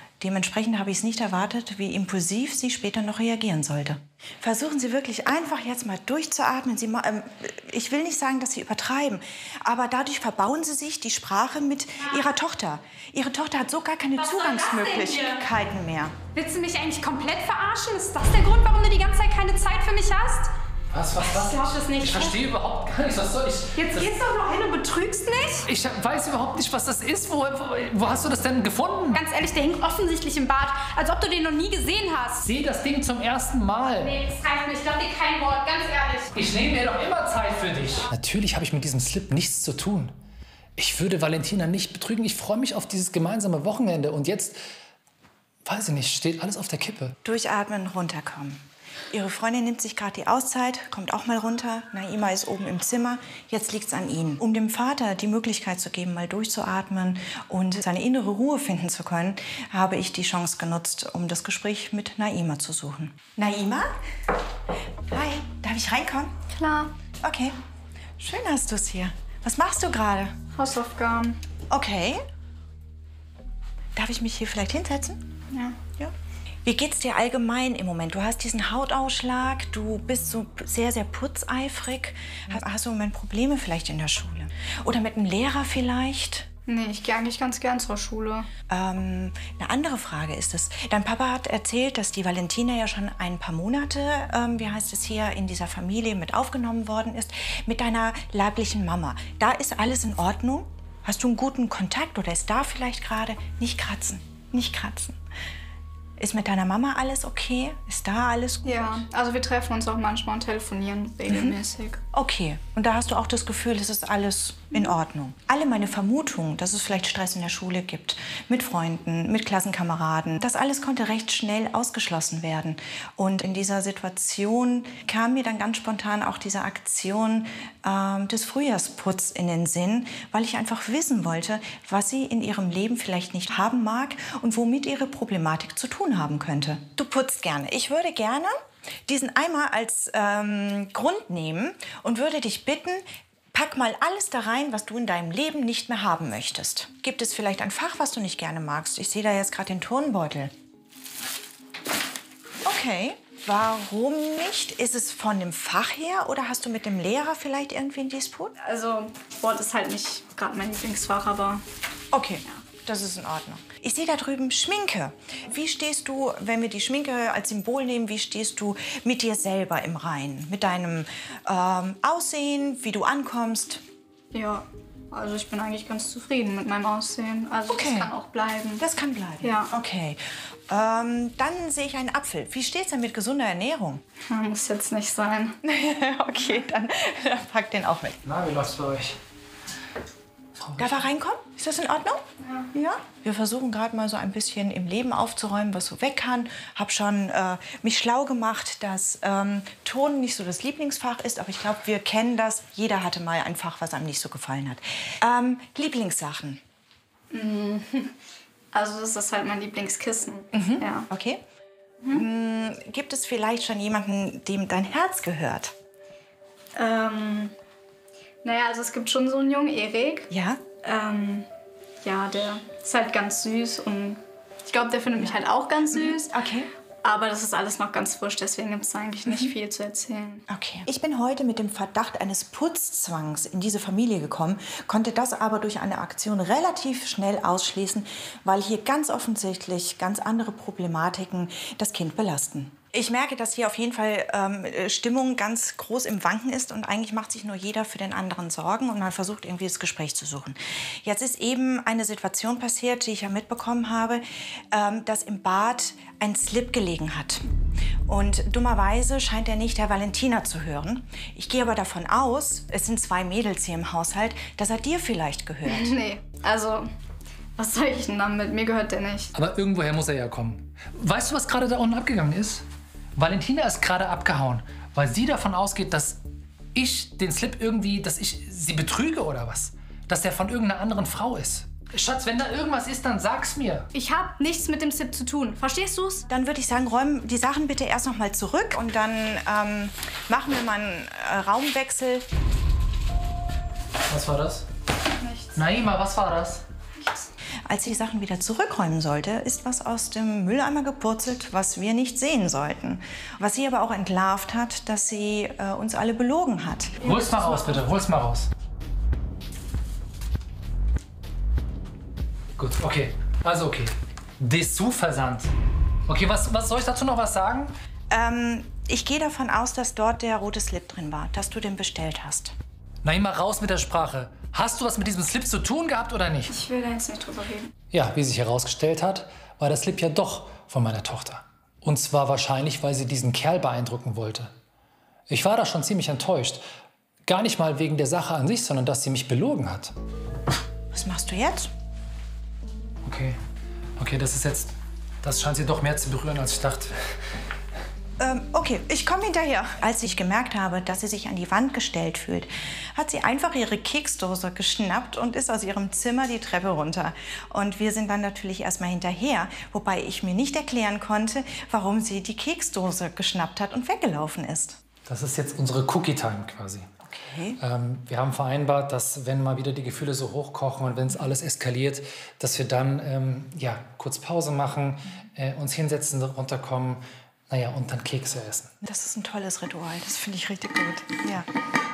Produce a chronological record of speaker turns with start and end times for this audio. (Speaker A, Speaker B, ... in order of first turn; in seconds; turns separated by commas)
Speaker A: 0.2-16.1, Speaker B: 14.2-15.4, Speaker B: 16.3-20.5, Speaker C: 20.9-24.1, Speaker B: 21.2-22.4, Speaker B: 23.8-25.0, Speaker D: 24.0-25.6, Speaker C: 25.6-29.2, Speaker D: 29.1-32.5, Speaker C: 32.4-34.2, Speaker D: 34.0-36.3, Speaker C: 36.3-40.1, Speaker C: 40.8-44.6, Speaker C: 45.6-47.2, Speaker A: 47.2-63.9, Speaker A: 65.1-66.3, Speaker D: 66.5-66.9, Speaker A: 67.2-67.5, Speaker A: 68.2-70.3, Speaker D: 70.5-71.4, Speaker A: 71.7-72.2, Speaker A: 74.0-75.2, Speaker D: 75.5-75.8, Speaker A: 76.7-86.5, Speaker D: 86.7-88.5, Speaker A: 88.7-105.2, Speaker A: 106.2-109.0, Speaker D: 108.7-112.0, Speaker A: 111.3-111.6, Speaker A: 112.1-138.5, Speaker A: 139.1-150.5, Speaker A: 152.6-158.6, Speaker D: 158.6-161.6, Speaker A: 162.1-173.8, Speaker D: 174.3-178.8, Speaker A: 177.7-178.1, Speaker A: 178.8-184.0, Speaker D: 179.4-179.7, Speaker D: 184.2-185.6, Speaker A: 185.6-188.2, Speaker C: 188.2-189.2, Speaker C: 190.6-191.1, Speaker A: 190.8-192.2, Speaker A: 192.7-206.6, Speaker D: 207.3-208.1, Speaker D: 208.7-211.1, Speaker A: 210.5-211.4, Speaker A: 212.1-215.7, Speaker D: 216.8-217.5, Speaker D: 218.4-220.3, Speaker A: 220.3-220.6, Speaker D: 220.8-221.5, Speaker D: 222.0-226.3, Speaker A: 225.9-226.7, Speaker D: 227.0-230.4, Speaker A: 230.5-257.4, Speaker A: 258.1-266.0, Speaker D: 265.7-266.9, Speaker D: 267.6-269.3, Speaker C: 269.3-276.2, Speaker C: 276.7-283.9, Speaker D: 283.9-286.3, Speaker A: 286.3-292.3, Speaker C: 294.1-294.7, Speaker D: 295.2-295.6, Speaker C: 295.6-296.6, Speaker D: 297.0-297.3, Speaker A: 297.7-307.1, Speaker D: 307.0-307.8, Speaker C: 307.0-308.5, Speaker C: 312.6-315.5, Speaker C: 316.1-317.7, Speaker A: 318.1-322.6, Speaker C: 323.0-326.6, Speaker D: 326.5-327.7, Speaker C: 327.9-334.5, Speaker C: 335.3-336.6, Speaker C: 337.3-339.9, Speaker A: 340.9-341.7, Speaker C: 343.0-343.4, Speaker C: 344.0-346.9, Speaker A: 348.2-364.8, Speaker C: 365.1-366.9, Speaker A: 367.1-367.6, Speaker C: 367.6-378.7, Speaker A: 378.8-381.5